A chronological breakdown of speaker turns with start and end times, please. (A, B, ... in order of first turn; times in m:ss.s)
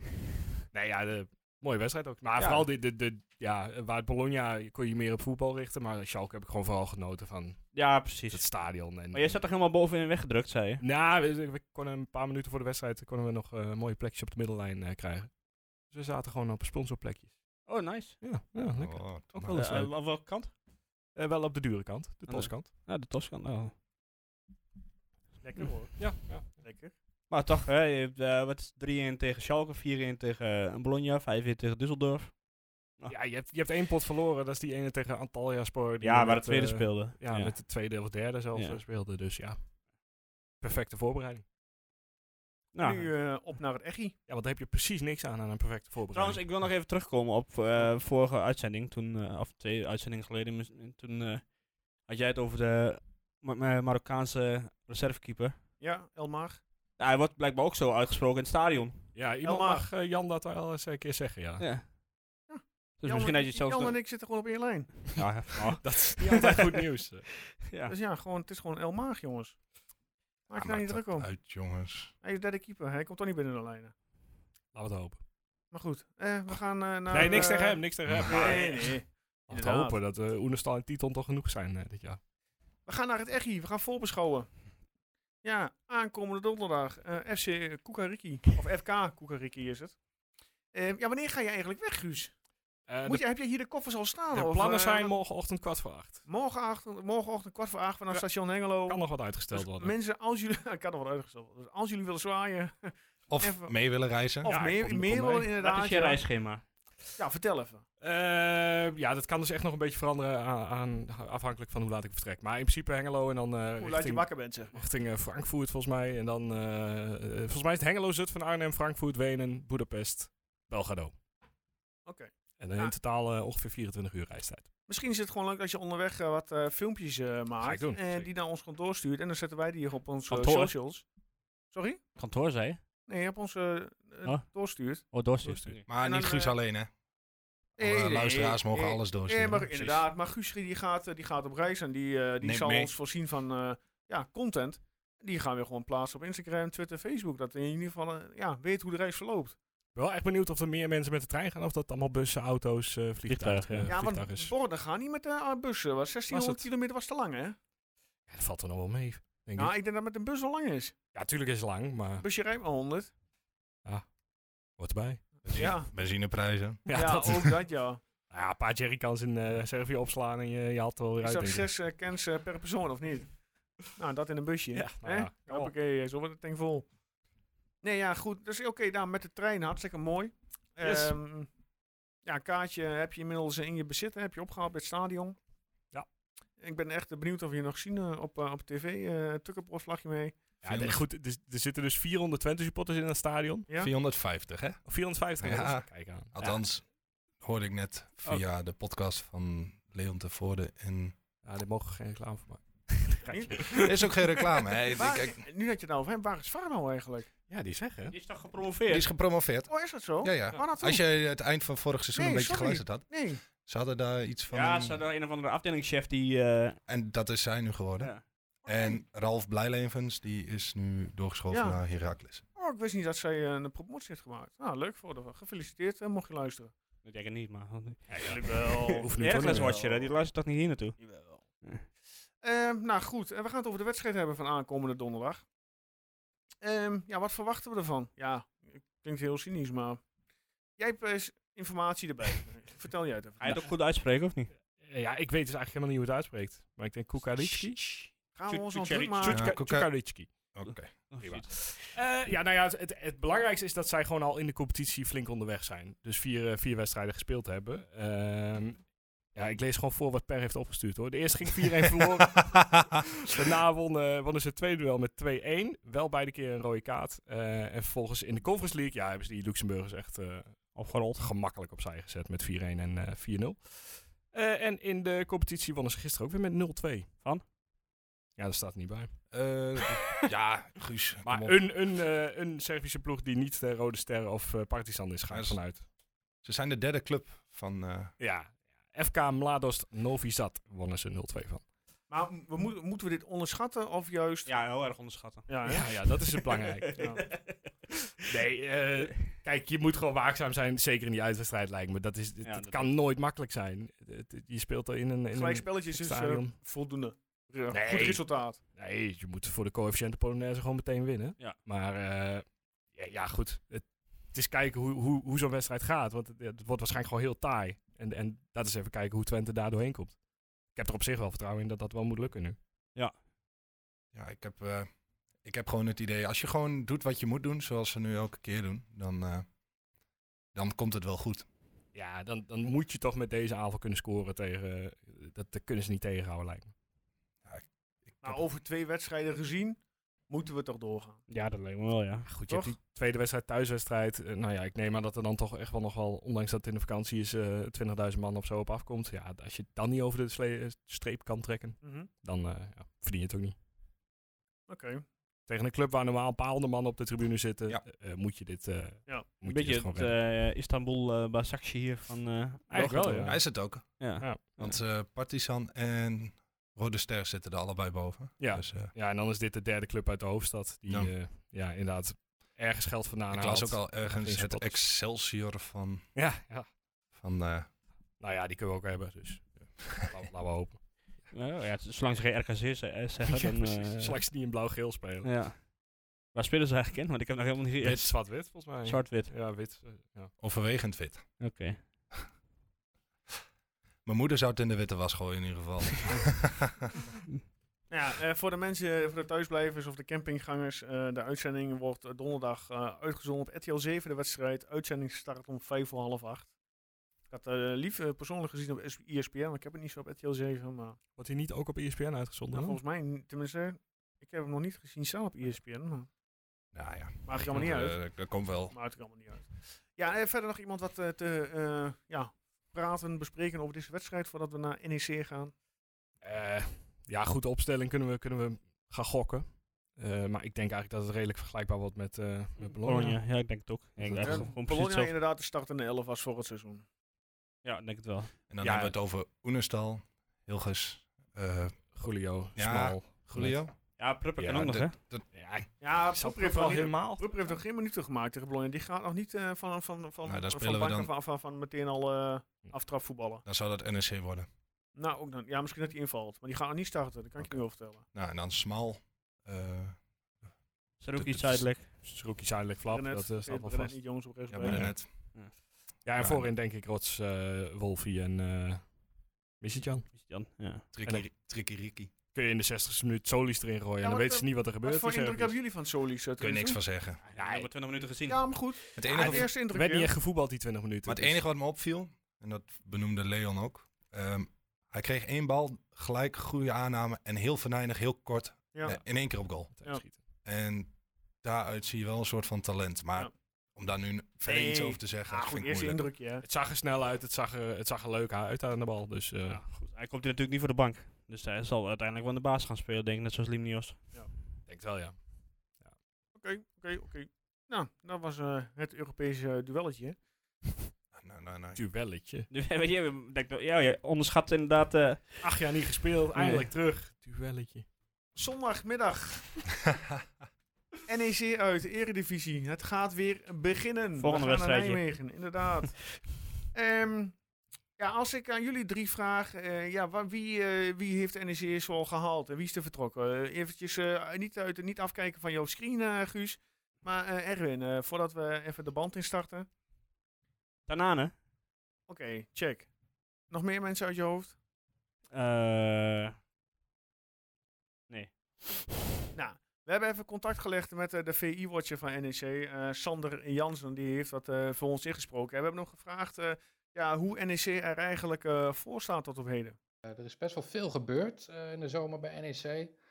0:00.7-0:09.4 A
0:02.4-0:02.7 B
0:07.7-0:10.8 B
0:10.8-0:15.3 A
0:15.9-0:17.6 A
0:17.6-0:18.2 B
0:18.2-0:19.9 A
0:18.7-0:19.7 C
0:19.5-0:20.5 B
0:21.1-0:22.7 A
0:22.3-0:23.7 B
0:25.4-0:26.9 D
0:26.0-0:26.6 A
0:27.3-0:32.4 B
0:33.1-0:39.6 A
0:36.0-0:37.6 B
0:38.5-0:38.8 B
0:40.6-0:41.4 A
0:42.7-0:43.1 B
0:42.8-0:44.2 D
0:44.3-0:46.4 A
0:46.1-0:51.5 B
0:52.0-0:55.6 B
0:55.8-0:56.6 D
0:57.0-0:59.0 B
0:59.1-1:01.6 A
0:59.4-0:59.9 D
1:01.6-1:01.8 B
1:02.5-1:05.2 D
1:03.0-1:04.0 B
1:05.2-1:06.8 B
1:05.8-1:07.3 A
1:07.6-1:07.9 B
1:07.9-1:09.6 D
1:10.5-1:11.3 D
1:10.5-1:12.1 C
1:12.2-1:13.9 D
1:14.7-1:15.2 A
1:15.7-1:20.0 D
1:17.1-1:19.0 A
1:18.3-1:18.6 B
1:19.5-1:22.2 A
1:22.8-1:24.5 D
1:25.4-1:30.0 D
1:30.7-1:32.3 D
1:32.9-1:33.2 A
1:33.0-1:35.1 D
1:34.3-1:36.2 A
1:36.2-1:43.7 D
1:38.8-1:39.9 A
1:43.3-1:44.5 C
1:44.4-1:46.2 D
1:44.4-1:45.5 A
1:45.6-1:46.6 B
1:47.2-1:47.8 D
1:48.0-2:01.1 A
1:53.8-1:54.8 D
2:02.0-2:02.9 D
2:02.6-2:04.7 A
2:04.9-2:11.0 D
2:07.6-2:08.3 A
2:10.3-2:10.7 B
2:11.7-2:12.0 D
2:12.2-2:12.8 B
2:13.1-2:15.0 D
2:15.1-2:15.8 B
2:15.4-2:15.8 A
2:15.9-2:16.9 C
2:16.0-2:16.5 D
2:17.8-2:20.1 C
2:17.8-2:29.6 D
2:22.4-2:22.9 C
2:29.9-2:34.5 A
2:33.3-2:33.9 B
2:33.9-2:37.6 D
2:36.3-2:36.6 A
2:38.3-2:39.7 A
2:39.6-2:40.9 D
2:41.1-2:42.2 A
2:42.2-2:43.1 D
2:44.8-2:45.3 A
2:45.5-2:45.9 D
2:45.5-2:47.1 C
2:46.8-2:47.6 A
2:46.9-2:48.0 D
2:48.3-2:51.7 A
2:51.2-2:56.9 D
2:54.7-2:55.7 A
2:57.8-3:01.5 D
3:00.8-3:01.2 A
3:02.2-3:05.4 D
3:06.6-3:10.4 D
3:10.6-3:13.7 A
3:10.6-3:11.0 C
3:13.8-3:14.8 C
3:14.8-3:16.3 A
3:15.4-3:16.8 C
3:17.4-3:21.2 C
3:21.4-3:23.9 A
3:23.2-3:23.9 D
3:23.7-3:25.4 C
3:24.9-3:27.3 D
3:27.5-3:28.1 A
3:28.1-3:29.1 B
3:28.9-3:35.0 C
3:29.7-3:31.0 D
3:32.1-3:33.4 D
3:34.5-3:36.8 B
3:36.9-3:38.1 C
3:38.6-3:42.4 C
3:38.7-3:39.0 D
3:41.5-3:41.8 D
3:42.5-3:46.7 D
3:47.0-3:51.0 B
3:48.1-3:49.8 A
3:48.2-3:50.1 D
3:51.0-3:51.4 D
3:52.4-3:55.4 D
3:56.6-4:00.0 D
4:00.8-4:03.7 D
4:03.4-4:04.5 B
4:04.8-4:07.8 A
4:08.3-4:09.4 D
4:08.5-4:09.4 B
4:09.2-4:10.3 A
4:09.3-4:09.9 C
4:10.5-4:10.9 C
4:11.1-4:11.9 B
4:11.2-4:30.6 A
4:30.7-4:31.2 B
4:31.2-4:37.1 A
4:38.4-4:39.2 A
4:39.3-4:41.6 C
4:41.2-4:45.8 A
4:45.3-4:45.6 C
4:46.4-4:48.1 C
4:48.2-4:51.6 A
4:52.1-4:54.5 D
4:54.4-4:55.5 B
4:55.5-4:55.9 D
4:55.6-4:57.0 A
4:56.3-4:57.7 B
4:56.9-4:57.2 D
4:58.2-5:06.6 A
5:02.4-5:02.9 B
5:05.3-5:08.6 D
5:07.7-5:20.2 A
5:20.7-5:22.6 A
5:24.1-5:24.9 C
5:25.4-5:29.4 C
5:30.5-5:31.4 C
5:31.9-5:36.7 A
5:37.4-5:38.4 C
5:38.2-5:41.2 D
5:41.3-5:42.3 B
5:42.3-5:53.6 A
5:42.5-5:42.7 D
5:51.8-5:52.1 D
5:54.7-5:55.0 D
5:55.5-6:00.1 A
5:59.4-6:03.4 B
6:02.7-6:03.6 A
6:03.2-6:04.0 C
6:04.0-6:04.8 B
6:04.2-6:04.5 A
6:04.6-6:08.9 C
6:08.4-6:14.8 A
6:10.9-6:11.1 C
6:13.3-6:16.0 C
6:16.1-6:16.7 A
6:17.1-6:17.7 C
6:18.2-6:20.8 A
6:21.3-6:24.2 B
6:23.3-6:25.3 A
6:25.2-6:25.6 B
6:26.3-6:29.3 B
6:27.8-6:30.3 A
6:30.4-6:31.3 C
6:31.4-6:31.8 B
6:34.0-6:36.9 C
6:37.9-6:46.5 D
6:47.3-6:51.0 D
6:51.2-6:52.8 A
6:52.5-6:56.1 D
6:56.7-6:58.7 C
6:57.2-6:58.0 D
6:58.7-7:05.5 D
7:06.2-7:13.2 A
7:12.8-7:15.1 B
7:14.0-7:14.5 A
7:14.2-7:16.8 D
7:17.6-7:18.3 B
7:18.5-7:21.8 C
7:18.6-7:18.9 A
7:21.9-7:23.6 A
7:22.6-7:23.8 C
7:24.0-7:24.9 B
7:24.4-7:25.2 C
7:25.3-7:27.3 A
7:25.8-7:33.4 D
7:30.2-7:31.1 C
7:33.4-7:34.5 C
7:34.9-7:38.0 D
7:38.1-7:40.0 C
7:41.0-7:41.9 B
7:41.1-7:41.6 C
7:42.0-7:43.9 A
7:42.8-7:44.9 D
7:44.5-7:45.1 C
7:44.6-7:44.9 A
7:46.0-7:48.9 A
7:46.2-7:46.5 C
7:49.6-7:50.1 A
7:50.1-7:50.8 B
7:50.9-7:52.1 C
7:52.3-7:55.6 A
7:54.0-7:56.8 D
7:56.4-7:57.2 C
7:57.3-7:58.7 B
7:57.4-7:57.7 A
7:58.3-8:00.1 D
7:59.0-7:59.5 C
7:59.1-8:01.4 A
8:01.0-8:09.7 C
8:08.7-8:09.0 D
8:09.8-8:10.2 A
8:10.4-8:10.9 C
8:11.4-8:16.0 C
8:14.4-8:16.4 D
8:16.4-8:19.6 A
8:19.4-8:24.1 B
8:24.7-8:25.2 A
8:26.3-8:30.2 D
8:31.1-8:31.8 C
8:31.7-8:32.5 A
8:32.5-8:35.4 B
8:35.4-8:37.8 A
8:36.4-8:36.7 B
8:38.3-8:39.5 D
8:41.1-8:46.2 D
8:44.2-8:45.0 B
8:46.7-8:47.4 D
8:48.0-8:59.7 D
9:00.9-9:01.3 B
9:02.1-9:02.9 D
9:03.5-9:04.6 D
9:05.3-9:06.3 B
9:09.3-9:19.8 D
9:20.0-9:22.9 E